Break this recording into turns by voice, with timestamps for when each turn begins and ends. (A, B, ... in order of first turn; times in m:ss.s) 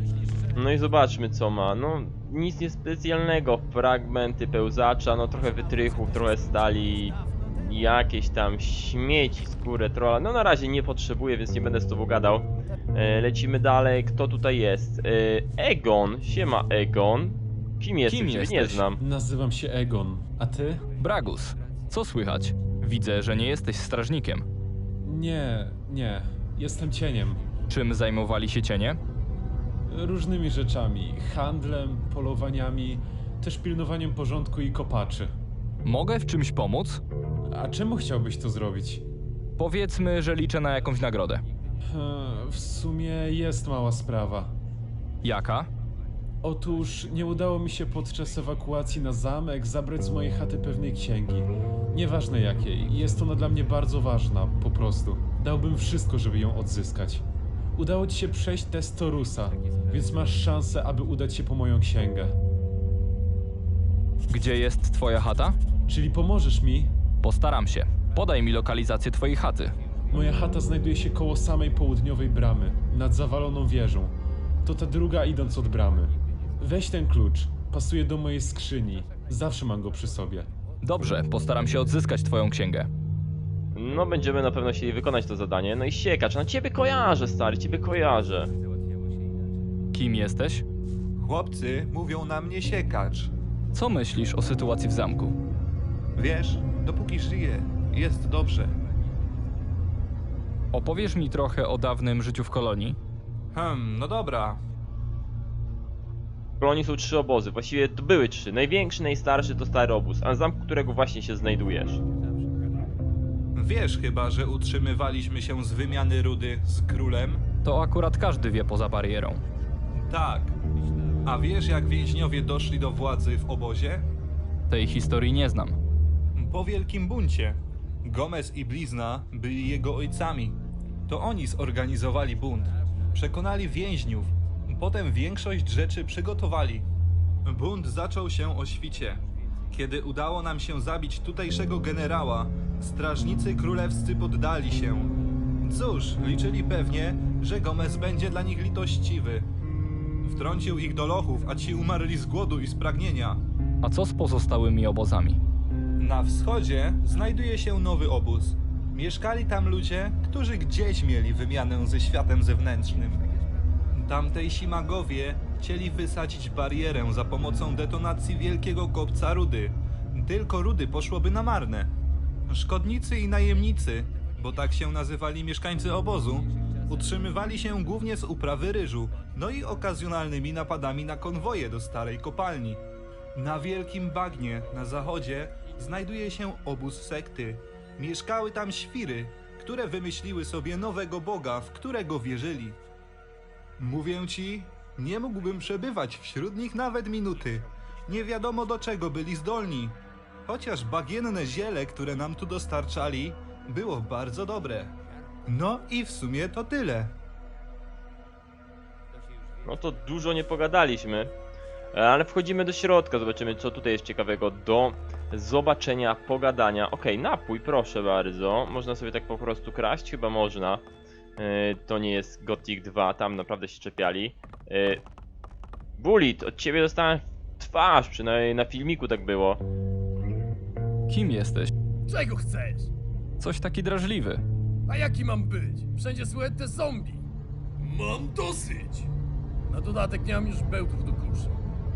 0:00.5-0:19.0 A
0:18.1-0:18.8 B
0:19.0-0:20.8 C
0:21.0-0:24.4 B
0:25.0-0:27.4 C
0:27.7-0:29.0 B
0:29.9-0:35.3 C
0:35.8-0:37.0 B
0:37.5-0:39.0 C
0:39.6-0:41.4 B
0:41.9-0:44.5 C
0:45.2-0:45.7 B
0:46.4-0:57.2 C
0:57.8-1:02.3 C
1:04.3-1:05.6 B
1:05.9-1:06.9 C
1:07.2-1:09.7 B
1:10.1-1:20.5 C
1:20.8-1:22.9 B
1:23.7-1:28.5 A
1:29.9-1:30.6 B
1:31.2-1:33.3 D
1:33.7-1:35.4 B
1:36.2-1:38.7 D
1:40.7-1:43.0 B
1:43.5-1:44.6 D
1:46.6-1:52.0 A
1:53.5-1:57.4 D
1:57.6-1:59.4 B
1:59.9-2:00.6 D
2:01.2-2:04.1 D
2:04.7-2:05.8 B
2:06.4-2:16.9 D
2:17.4-2:29.4 D
2:30.2-2:33.4 D
2:33.8-2:35.4 B
2:36.0-2:43.2 D
2:43.9-2:51.9 D
2:52.5-3:02.8 D
3:03.3-3:12.8 D
3:13.8-3:27.1 D
3:29.6-3:31.3 A
3:31.9-3:40.8 A
3:41.4-3:45.0 A
3:46.0-3:49.6 A
3:51.1-3:51.7 B
3:52.0-3:52.9 E
3:53.4-3:54.4 B
3:54.9-3:57.2 E
3:57.8-3:59.1 E
3:59.7-4:01.5 E